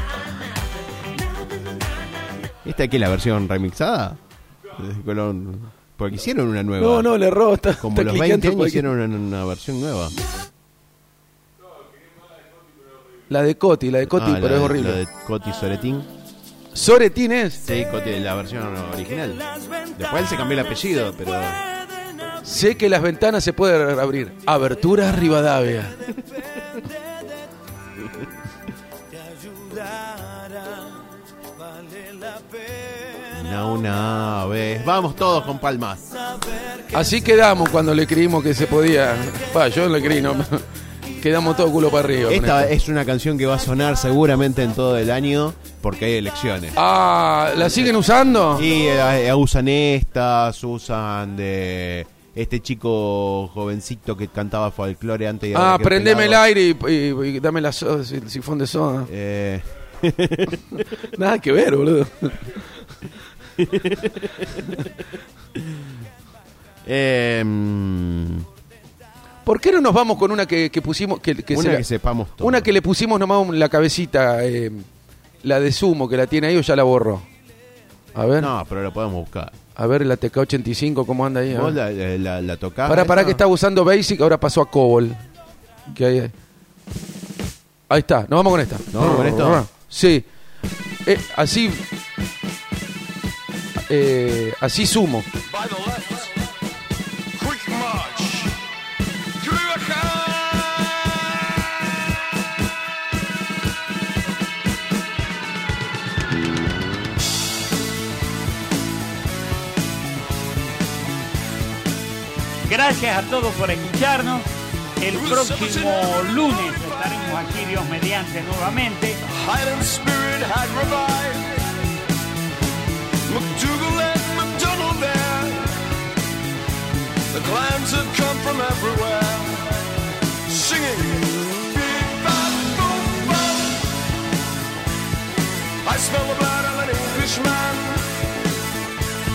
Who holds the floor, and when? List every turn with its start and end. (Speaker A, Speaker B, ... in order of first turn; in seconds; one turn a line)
Speaker A: 2.6-4.2
Speaker A: 4.7-7.1
Speaker B: 6.8-8.9
Speaker A: 7.8-10.1
Speaker B: 13.3-15.0
Speaker A: 14.1-16.1
Speaker B: 16.7-17.6
Speaker A: 17.6-19.4
Speaker A: 19.9-21.7
Speaker B: 22.4-26.0
Speaker C: 29.4-31.0
Speaker C: 31.9-33.2
Speaker A: 33.3-36.1
Speaker B: 36.9-40.6
Speaker B: 41.1-42.7
Speaker A: 42.3-46.8
Speaker B: 46.8-48.7
Speaker A: 48.5-56.4
Speaker B: 55.5-59.1
Speaker A: 59.1-60.7
Speaker B: 61.0-62.7
Speaker A: 63.6-64.7
Speaker A: 65.6-65.8
Speaker A: 66.8-68.5
Speaker B: 69.4-71.8
Speaker A: 71.5-72.7
Speaker B: 72.4-74.8
Speaker B: 75.4-77.2
Speaker B: 78.1-78.5
Speaker A: 78.4-79.5
Speaker B: 79.7-81.8
Speaker A: 81.5-83.4
Speaker B: 82.8-85.2
Speaker B: 85.9-86.3
Speaker B: 87.9-90.2
Speaker A: 88.9-89.6
Speaker B: 91.0-91.8
Speaker B: 93.9-95.3
Speaker C: 95.5-96.3
Speaker C: 97.4-98.6
Speaker C: 99.4-101.6
Speaker D: 112.7-114.5
Speaker D: 115.0-119.2
Speaker C: 115.1-117.1
Speaker C: 119.3-121.7
Speaker C: 123.3-125.7
Speaker C: 127.3-129.8
Speaker C: 130.4-133.8
Speaker C: 135.8-138.1